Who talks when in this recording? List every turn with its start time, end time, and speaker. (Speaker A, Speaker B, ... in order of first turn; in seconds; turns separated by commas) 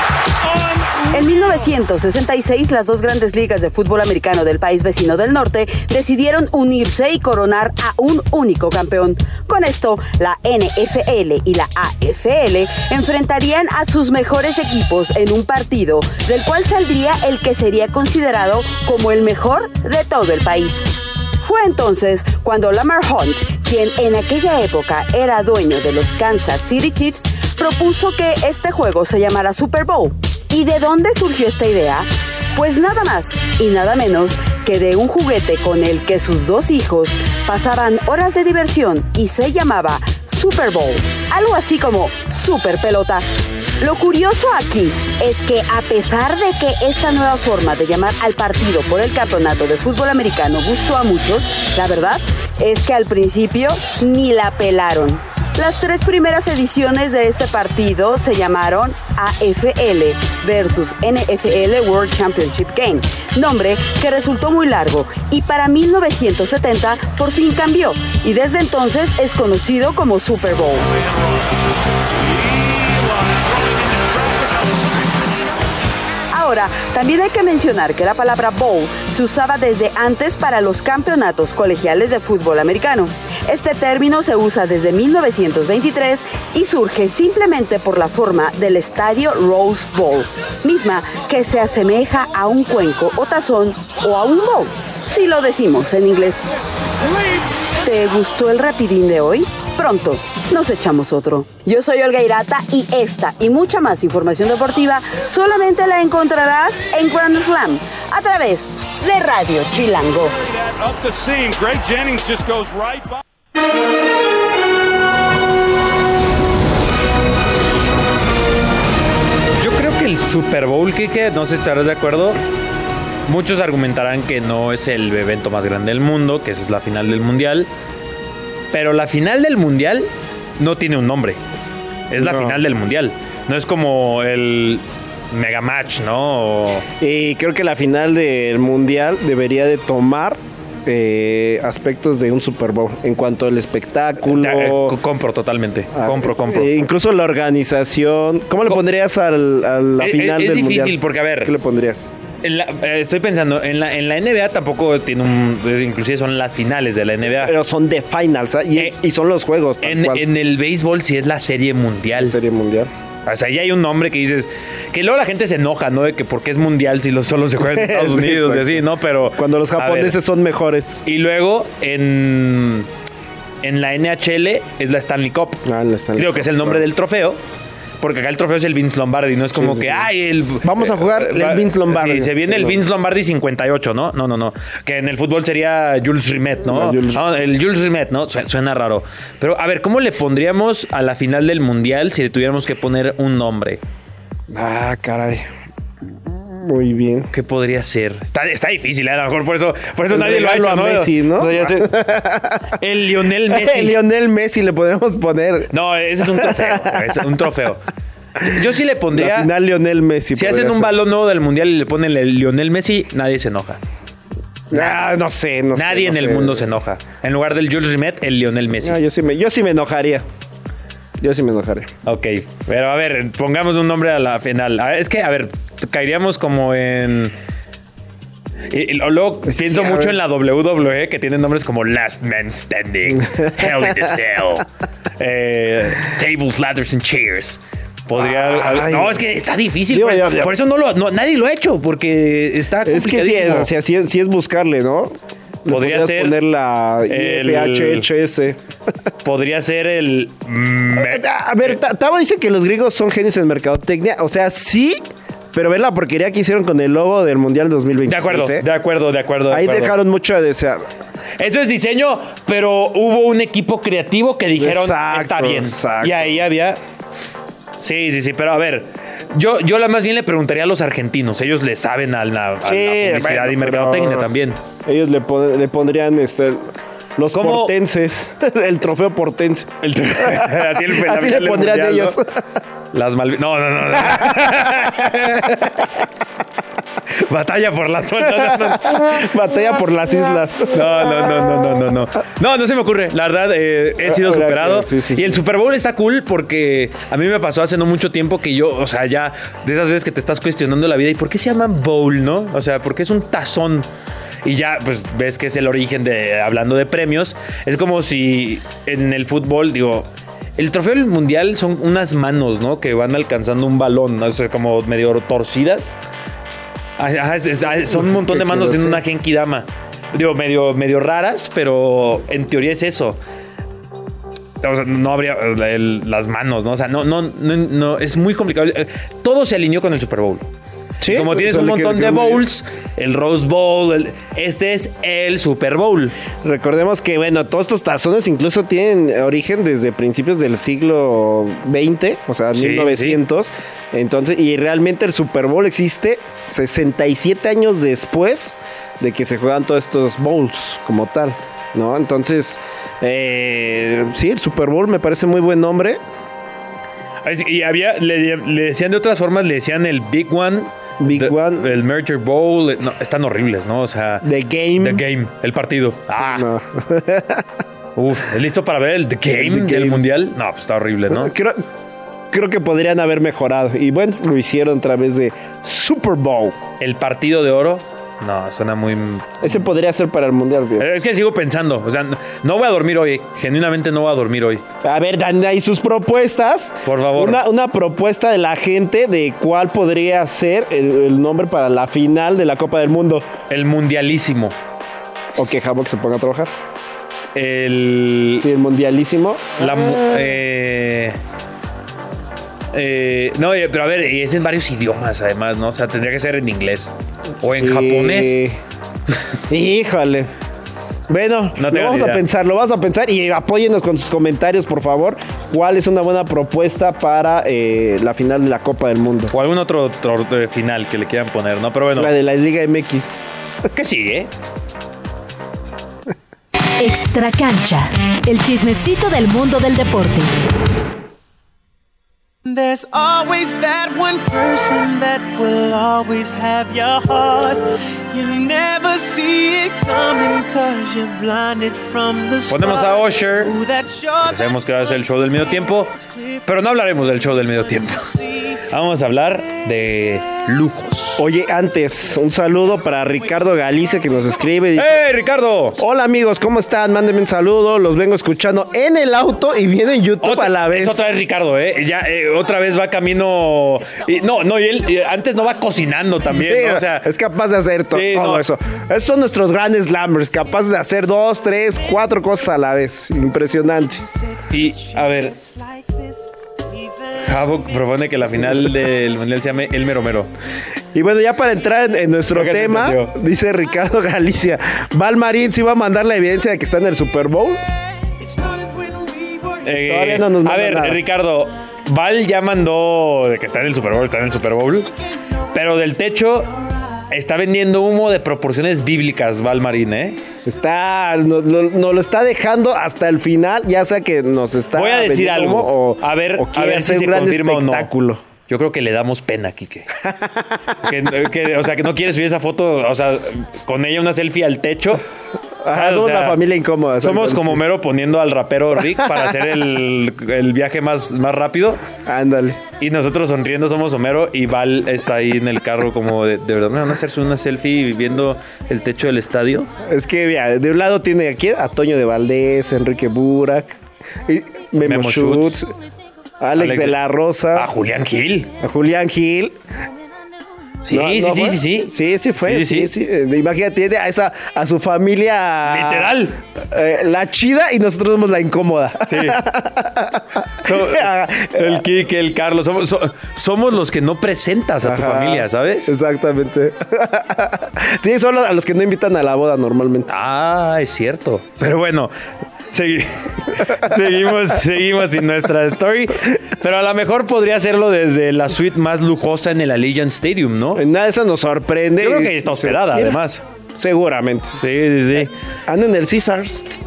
Speaker A: 1.1-43.2, Speaker A: 43.8-70.9, Speaker A: 76.3-96.5, Speaker A: 97.8-110.3, Speaker B: 110.5-113.2, Speaker C: 119.6-122.4, Speaker C: 123.3-127.7, Speaker C: 128.7-131.4, Speaker C: 132.1-136.9, Speaker D: 132.2-132.6, Speaker D: 137.0-145.0, Speaker C: 144.2-146.7, Speaker D: 145.9-152.1, Speaker C: 150.0-151.5, Speaker C: 152.4-157.6, Speaker D: 157.4-160.2, Speaker C: 159.8-162.4, Speaker D: 162.2-162.9, Speaker C: 163.3-170.2, Speaker D: 167.6-168.8, Speaker D: 169.4-171.0, Speaker C: 171.1-172.9, Speaker C: 173.6-175.6, Speaker D: 175.7-176.8, Speaker C: 176.2-177.4, Speaker C: 178.0-193.8, Speaker D: 179.5-180.1, Speaker D: 180.6-182.8, Speaker D: 186.7-187.2, Speaker D: 194.5-195.4, Speaker D: 196.3-197.3, Speaker C: 197.3-201.9, Speaker D: 200.1-202.8, Speaker C: 202.8-204.0, Speaker D: 203.5-205.7, Speaker C: 205.7-207.8, Speaker D: 206.3-207.2, Speaker C: 208.4-209.5, Speaker D: 209.1-210.9, Speaker C: 210.3-213.8, Speaker D: 214.7-216.6, Speaker C: 214.7-215.0, Speaker C: 215.8-219.0, Speaker D: 218.8-220.2, Speaker D: 221.2-221.9, Speaker C: 222.1-227.3, Speaker C: 228.7-234.7, Speaker D: 229.5-230.2, Speaker D: 233.2-233.7, Speaker C: 235.2-243.7, Speaker D: 238.2-239.2, Speaker D: 239.9-240.5, Speaker D: 242.8-248.6, Speaker C: 245.7-246.4, Speaker C: 247.1-248.1, Speaker C: 249.2-251.8, Speaker D: 250.9-258.7, Speaker C: 258.1-260.0, Speaker D: 259.5-260.9, Speaker C: 261.4-266.8, Speaker D: 264.6-266.4, Speaker C: 267.8-274.6, Speaker D: 272.6-274.3, Speaker D: 274.9-282.2, Speaker C: 277.3-277.8, Speaker C: 279.8-282.2, Speaker C: 282.9-286.0, Speaker D: 284.0-284.7, Speaker C: 287.1-289.3, Speaker D: 288.4-291.1, Speaker C: 290.7-303.9, Speaker D: 294.0-295.4, Speaker C: 304.4-315.9, Speaker C: 317.0-323.2, Speaker D: 317.9-319.0, Speaker C: 324.6-330.4, Speaker D: 331.0-332.4, Speaker C: 331.1-336.1, Speaker D: 336.4-356.0, Speaker C: 342.5-343.2, Speaker C: 357.2-364.2, Speaker D: 361.0-361.7, Speaker D: 364.2-365.0, Speaker C: 364.8-366.5, Speaker D: 366.1-367.5, Speaker C: 368.0-371.3, Speaker D: 369.3-370.1, Speaker D: 371.1-371.6, Speaker D: 372.3-376.6, Speaker C: 376.8-379.7, Speaker D: 379.4-381.0, Speaker C: 380.8-384.6, Speaker D: 384.8-393.3, Speaker C: 386.9-387.4, Speaker C: 393.5-394.6, Speaker D: 395.4-396.5, Speaker C: 397.4-398.5, Speaker D: 398.4-400.1, Speaker C: 399.6-401.2, Speaker C: 402.7-408.4, Speaker D: 407.4-408.6, Speaker D: 409.5-410.3, Speaker D: 411.1-419.3, Speaker C: 411.6-412.2, Speaker C: 419.3-422.1, Speaker D: 422.0-423.3, Speaker C: 423.7-424.3, Speaker E: 426.8-430.4, Speaker F: 432.4-444.6, Speaker C: 442.5-443.5, Speaker C: 444.2-448.1, Speaker F: 446.0-446.3, Speaker F: 447.8-448.6, Speaker C: 448.7-451.2, Speaker D: 451.2-455.0, Speaker C: 454.8-455.8, Speaker D: 455.8-461.0, Speaker C: 460.2-467.1, Speaker D: 466.3-474.1, Speaker C: 467.9-468.5, Speaker C: 474.5-475.4, Speaker F: 474.8-476.3, Speaker C: 477.2-480.3, Speaker D: 480.9-487.6, Speaker C: 482.3-483.1, Speaker F: 488.2-489.6, Speaker C: 489.6-494.9, Speaker D: 489.8-491.0, Speaker C: 495.5-496.5, Speaker C: 497.1-500.2, Speaker D: 500.4-508.2, Speaker C: 504.8-507.9, Speaker C: 508.5-509.9, Speaker D: 510.0-510.9, Speaker C: 510.8-515.0, Speaker D: 515.6-517.6, Speaker C: 515.7-516.4, Speaker C: 517.0-521.8, Speaker D: 522.0-522.6, Speaker C: 522.8-529.7, Speaker D: 529.8-535.7, Speaker C: 534.9-535.6, Speaker D: 536.4-537.7, Speaker C: 536.6-537.0, Speaker C: 537.5-538.5, Speaker D: 538.6-539.6, Speaker C: 540.8-542.9, Speaker D: 540.9-546.1, Speaker C: 545.6-546.4, Speaker D: 546.7-551.8, Speaker C: 549.1-549.4, Speaker C: 550.6-555.9, Speaker D: 554.8-560.1, Speaker C: 560.1-562.1, Speaker C: 562.7-570.8, Speaker D: 570.8-573.2, Speaker C: 572.0-573.4, Speaker D: 573.8-574.6, Speaker C: 574.6-575.3, Speaker D: 575.7-576.6